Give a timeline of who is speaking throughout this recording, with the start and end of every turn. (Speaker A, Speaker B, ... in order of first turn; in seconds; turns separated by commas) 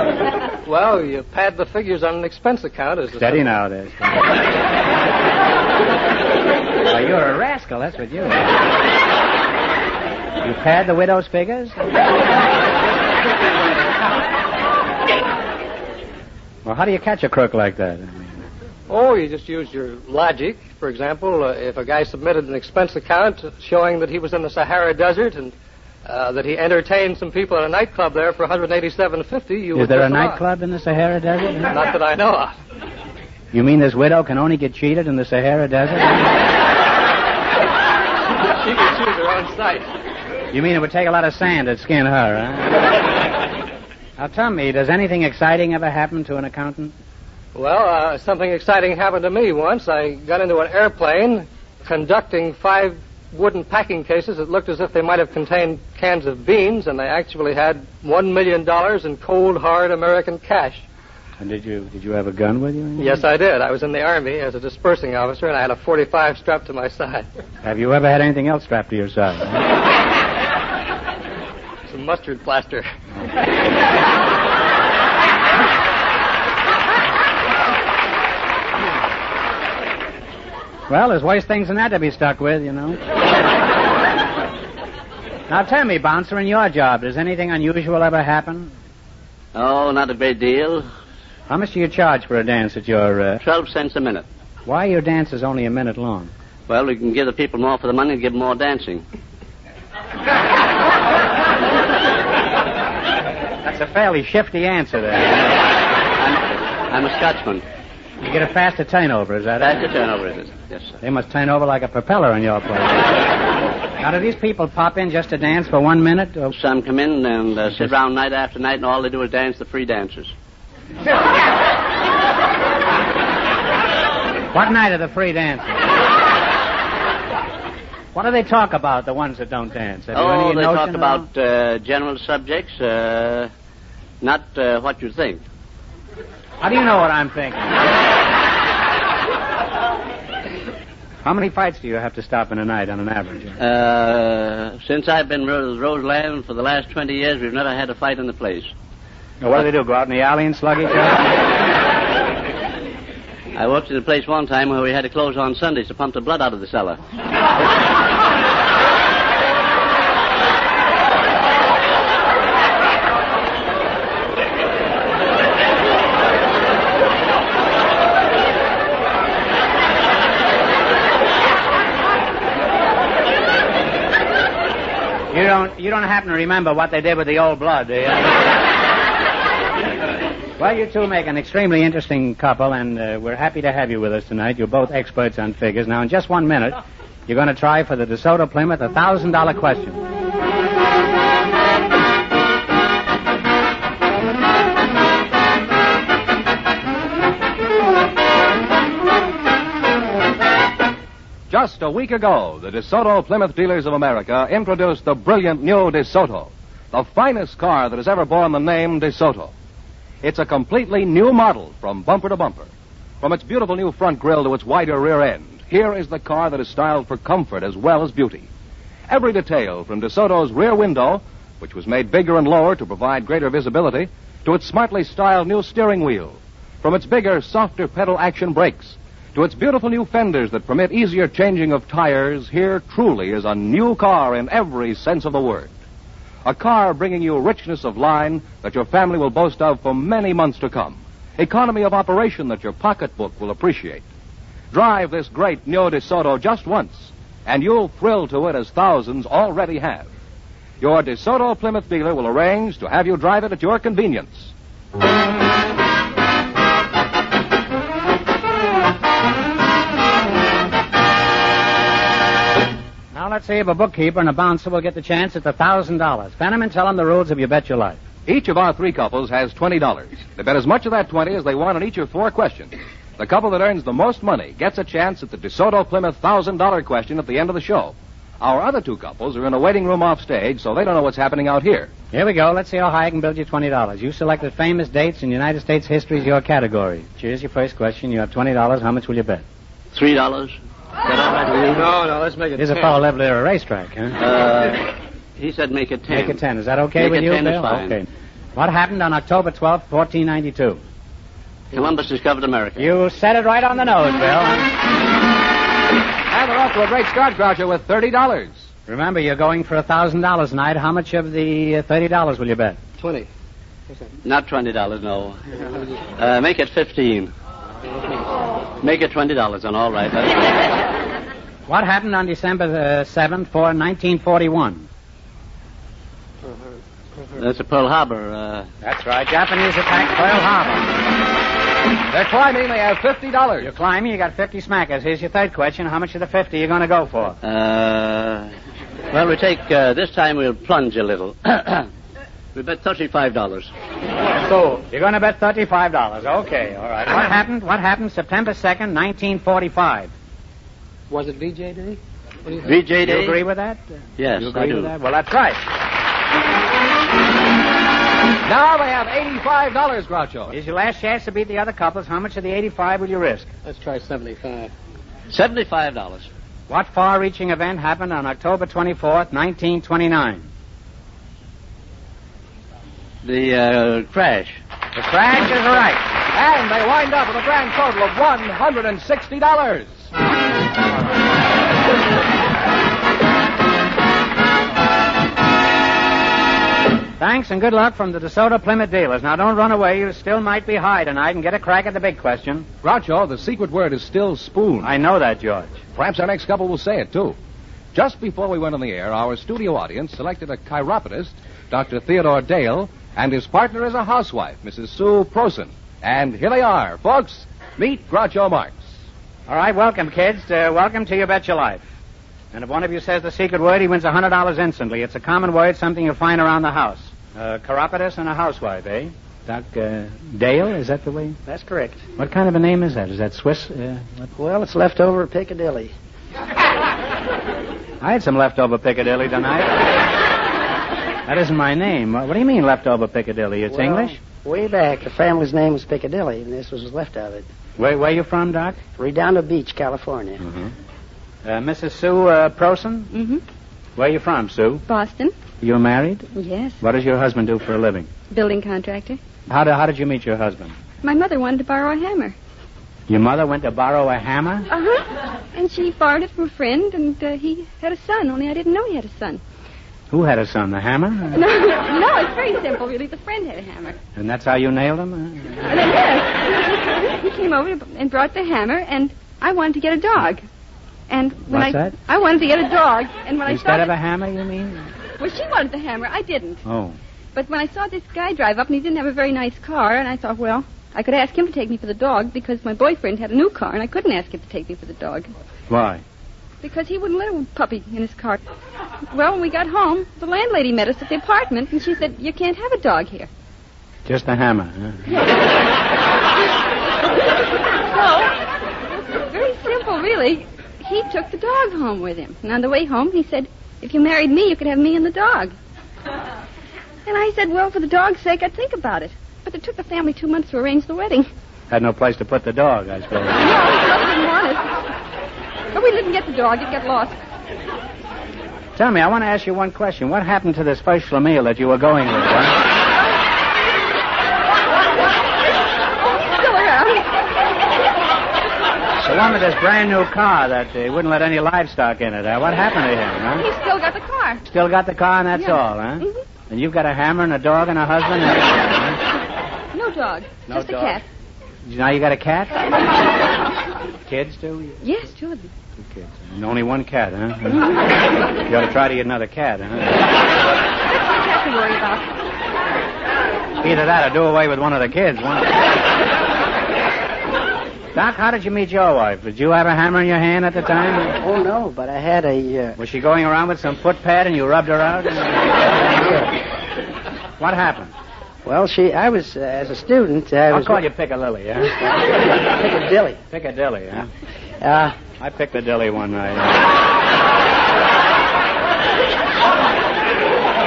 Speaker A: 0.6-3.5, Speaker B: 3.2-4.3, Speaker B: 6.8-8.6, Speaker B: 10.4-11.9, Speaker B: 16.6-18.4, Speaker A: 18.9-30.4, Speaker B: 29.7-31.7, Speaker A: 31.7-32.6, Speaker B: 33.5-36.3, Speaker A: 38.3-39.9, Speaker B: 40.5-42.9, Speaker B: 44.2-46.9, Speaker A: 47.5-60.9, Speaker B: 61.4-63.2, Speaker A: 63.0-67.3, Speaker B: 67.6-69.6, Speaker A: 71.9-72.9, Speaker B: 80.9-83.0, Speaker B: 85.5-88.7, Speaker C: 89.5-90.9, Speaker B: 91.5-93.4, Speaker C: 93.4-94.2, Speaker B: 94.7-96.3, Speaker C: 96.7-99.0, Speaker B: 103.6-105.6, Speaker C: 106.2-107.6, Speaker B: 108.2-109.8, Speaker C: 109.6-110.9, Speaker B: 111.0-113.1, Speaker B: 114.0-116.5, Speaker C: 116.5-120.3, Speaker B: 124.5-125.9, Speaker B: 128.1-131.3, Speaker C: 130.1-133.5, Speaker C: 134.2-135.4, Speaker B: 136.6-137.9, Speaker B: 141.2-143.6, Speaker C: 143.6-148.7, Speaker B: 149.4-151.3, Speaker C: 153.5-157.0, Speaker B: 175.3-178.5, Speaker B: 180.6-190.0, Speaker D: 201.5-209.5, Speaker D: 210.2-212.7, Speaker D: 213.2-218.5, Speaker D: 219.1-235.7, Speaker D: 236.4-244.0, Speaker D: 244.7-250.1, Speaker D: 250.8-254.5, Speaker B: 263.1-268.0, Speaker D: 268.2-281.9, Speaker B: 282.1-289.4, Speaker C: 289.9-291.9, Speaker A: 291.7-293.0, Speaker B: 292.6-294.2, Speaker C: 294.2-296.4, Speaker B: 296.1-300.8, Speaker C: 297.0-297.9, Speaker C: 301.7-302.9, Speaker B: 302.8-304.7, Speaker D: 306.3-308.7, Speaker B: 308.9-312.8, Speaker A: 313.0-313.3, Speaker C: 314.2-315.4, Speaker C: 316.2-317.3, Speaker C: 318.8-320.6, Speaker B: 321.7-324.9, Speaker C: 327.3-328.7, Speaker B: 328.8-331.0, Speaker D: 332.1-333.7, Speaker B: 333.6-337.4, Speaker C: 337.4-338.5, Speaker C: 339.1-341.9, Speaker C: 342.5-343.7, Speaker B: 344.4-350.1, Speaker A: 351.1-352.7, Speaker C: 352.6-353.4, Speaker B: 353.0-355.6, Speaker C: 354.2-354.9, Speaker D: 358.4-360.5, Speaker B: 360.5-363.5, Speaker A: 363.6-364.7, Speaker C: 365.3-366.3, Speaker B: 366.7-370.5, Speaker C: 373.2-374.6, Speaker B: 374.9-376.0, Speaker D: 376.3-380.0, Speaker B: 387.2-392.7, Speaker D: 392.8-394.9, Speaker B: 394.8-395.8, Speaker D: 395.9-397.4, Speaker D: 397.9-408.9, Speaker B: 409.5-411.9, Speaker B: 412.5-421.4, Speaker E: 421.5-422.0, Speaker B: 422.2-424.3, Speaker E: 424.4-425.9, Speaker B: 428.0-429.9, Speaker B: 431.2-434.2, Speaker E: 433.7-437.4, Speaker B: 437.8-438.8, Speaker E: 439.0-440.4, Speaker B: 440.4-440.7, Speaker B: 441.4-443.1, Speaker F: 443.1-443.4, Speaker B: 443.9-444.8, Speaker F: 444.9-445.4, Speaker B: 445.6-446.3, Speaker F: 446.3-446.8, Speaker B: 446.8-448.1, Speaker F: 448.3-449.2, Speaker B: 449.5-450.8, Speaker F: 451.0-452.3, Speaker B: 453.1-454.7, Speaker F: 454.7-459.4, Speaker B: 460.1-461.4, Speaker F: 461.3-464.0, Speaker B: 464.1-465.7, Speaker F: 465.6-470.4, Speaker F: 471.1-473.9, Speaker B: 471.5-471.9, Speaker B: 473.4-474.9, Speaker F: 475.2-476.6, Speaker B: 476.6-477.0, Speaker F: 477.3-485.3, Speaker B: 485.7-486.0, Speaker F: 486.6-488.4, Speaker F: 489.1-493.3, Speaker B: 494.0-495.1, Speaker F: 497.9-498.4, Speaker F: 499.0-505.5, Speaker F: 507.1-511.3, Speaker B: 511.7-513.5, Speaker F: 513.4-514.8, Speaker F: 515.7-517.2, Speaker B: 518.8-522.6, Speaker F: 526.2-527.1, Speaker B: 529.0-533.5, Speaker F: 533.4-534.4, Speaker B: 534.4-539.0, Speaker F: 535.3-536.2, Speaker F: 539.7-541.0, Speaker B: 540.5-541.0, Speaker B: 541.6-542.6, Speaker B: 544.0-544.8, Speaker F: 544.8-545.5, Speaker B: 545.8-547.7, Speaker B: 548.4-550.0, Speaker F: 551.1-552.1, Speaker B: 553.6-555.6, Speaker B: 557.9-561.2, Speaker E: 561.2-562.8, Speaker B: 562.8-565.6, Speaker E: 565.8-566.3, Speaker B: 567.4-567.9, Speaker E: 568.4-570.8, Speaker B: 570.5-571.7, Speaker E: 571.7-573.2, Speaker B: 573.3-574.1, Speaker E: 574.6-575.0, Speaker B: 575.2-576.7